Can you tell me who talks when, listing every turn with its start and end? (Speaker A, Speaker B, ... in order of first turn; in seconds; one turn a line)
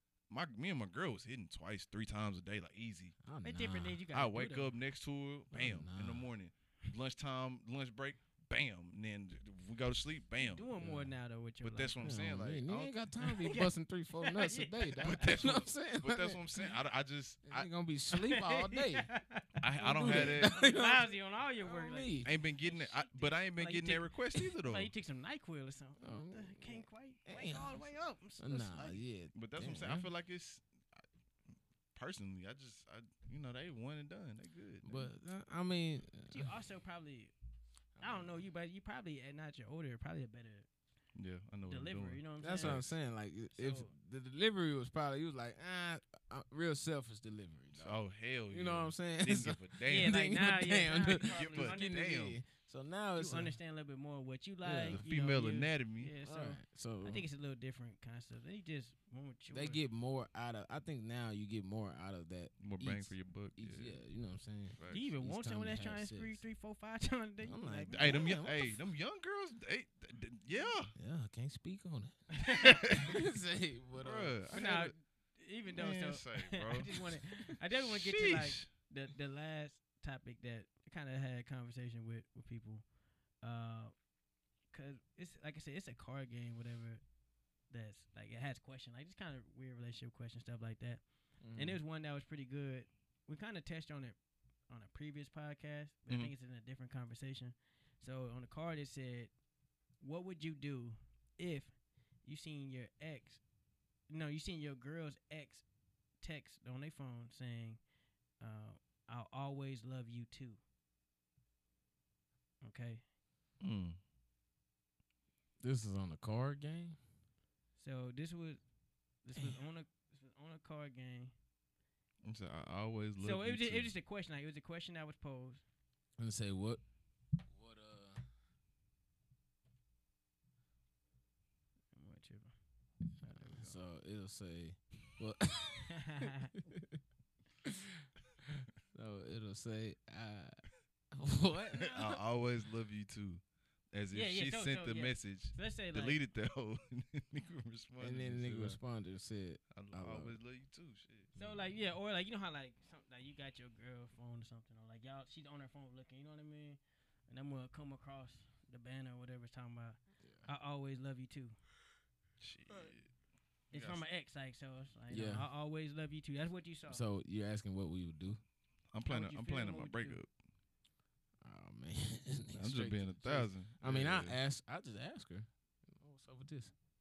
Speaker A: 0.3-3.1
Speaker B: 3.2-4.0
Speaker C: 3.4-4.7
Speaker A: 4.1-10.7
Speaker B: 5.5-6.2
Speaker C: 10.4-12.1
Speaker B: 10.8-11.1
Speaker A: 11.6-13.0
Speaker B: 12.0-16.4
Speaker C: 13.2-15.3
Speaker A: 15.0-17.7
Speaker B: 17.4-19.1
Speaker C: 18.1-29.0
Speaker A: 19.6-20.6
Speaker B: 19.8-22.3
Speaker A: 22.2-24.9
Speaker B: 26.0-30.1
Speaker A: 29.3-31.0
Speaker A: 31.9-35.1
Speaker B: 34.8-36.5
Speaker C: 36.3-37.3
Speaker B: 38.0-38.4
Speaker C: 38.0-40.7
Speaker A: 41.1-42.9
Speaker C: 41.7-42.8
Speaker B: 42.4-48.0
Speaker C: 43.5-43.9
Speaker A: 47.7-50.2
Speaker B: 48.5-53.5
Speaker C: 49.9-52.1
Speaker A: 51.1-52.4
Speaker C: 53.1-59.8
Speaker B: 54.6-55.0
Speaker A: 54.9-56.1
Speaker B: 56.2-57.2
Speaker B: 59.5-66.4
Speaker A: 62.6-64.0
Speaker A: 64.8-65.1
Speaker C: 64.9-68.3
Speaker B: 67.4-68.8
Speaker A: 67.9-70.9
Speaker B: 71.0-74.3
Speaker C: 72.3-73.1
Speaker A: 72.5-73.1
Speaker A: 74.0-74.9
Speaker C: 74.5-82.8
Speaker A: 75.7-77.0
Speaker A: 77.7-78.7
Speaker C: 83.4-83.9
Speaker C: 84.7-87.0
Speaker C: 87.7-91.0
Speaker B: 91.4-91.8
Speaker C: 91.5-94.2
Speaker C: 94.7-99.3
Speaker C: 100.0-101.7
Speaker C: 102.2-103.4
Speaker C: 104.1-105.6
Speaker C: 106.2-107.8
Speaker C: 108.4-110.6
Speaker C: 112.6-113.0
Speaker A: 113.6-114.0
Speaker B: 115.6-117.0
Speaker C: 117.8-118.6
Speaker C: 119.2-121.3
Speaker B: 119.3-119.6
Speaker A: 122.2-123.9
Speaker C: 123.2-125.6
Speaker B: 126.2-126.8
Speaker B: 127.5-128.2
Speaker C: 131.9-132.5
Speaker C: 133.2-133.8
Speaker B: 133.3-137.0
Speaker C: 135.9-136.5
Speaker B: 137.6-137.9
Speaker B: 138.5-140.6
Speaker B: 141.1-142.2
Speaker A: 141.8-143.4
Speaker A: 143.9-148.8
Speaker C: 144.1-146.2
Speaker B: 148.0-150.3
Speaker A: 149.7-151.3
Speaker B: 151.4-151.6
Speaker C: 151.4-161.6
Speaker B: 160.2-160.5
Speaker A: 162.4-163.1
Speaker A: 163.7-164.0
Speaker C: 163.7-167.0
Speaker B: 165.1-165.5
Speaker B: 166.9-168.4
Speaker A: 168.9-170.3
Speaker C: 169.1-170.2
Speaker B: 171.4-176.7
Speaker A: 172.5-174.4